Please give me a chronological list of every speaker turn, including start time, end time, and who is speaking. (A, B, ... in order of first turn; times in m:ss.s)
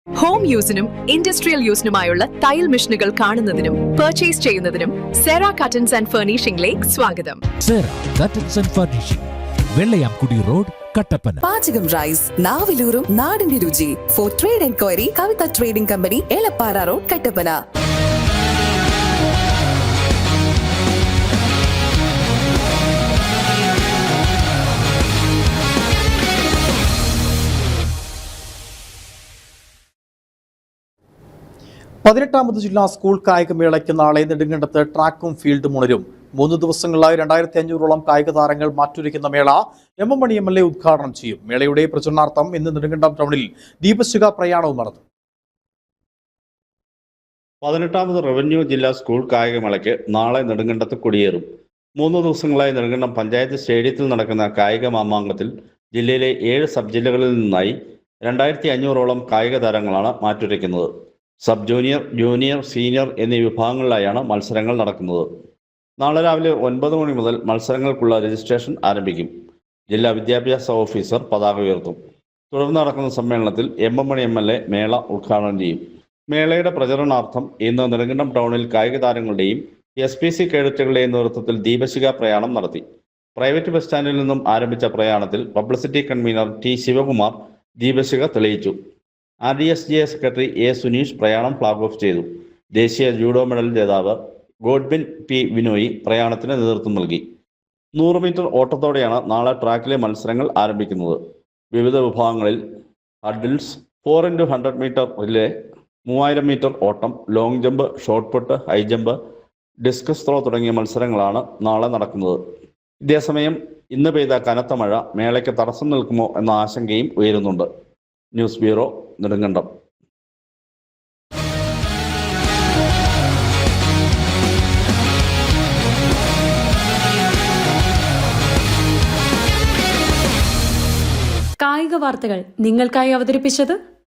0:00.2-0:07.4 A
0:07.6-0:11.4 B
0:11.4-0:17.6 C
0:32.0-0:45.0 D
0:47.6-0:51.4 E
0:52.0-1:00.9 E
1:01.4-1:05.3 E
1:06.0-1:09.3 E
1:09.9-1:12.0 E
1:12.5-1:22.8 E
1:23.4-1:28.8 E
1:29.4-1:37.2 E
1:37.9-1:41.2 E
1:41.7-1:42.6 E
1:43.2-1:45.5 E
1:46.0-1:49.2 E
1:49.8-1:52.4 E
1:53.0-1:57.7 E
1:58.3-1:59.7 E
2:11.6-2:13.8 F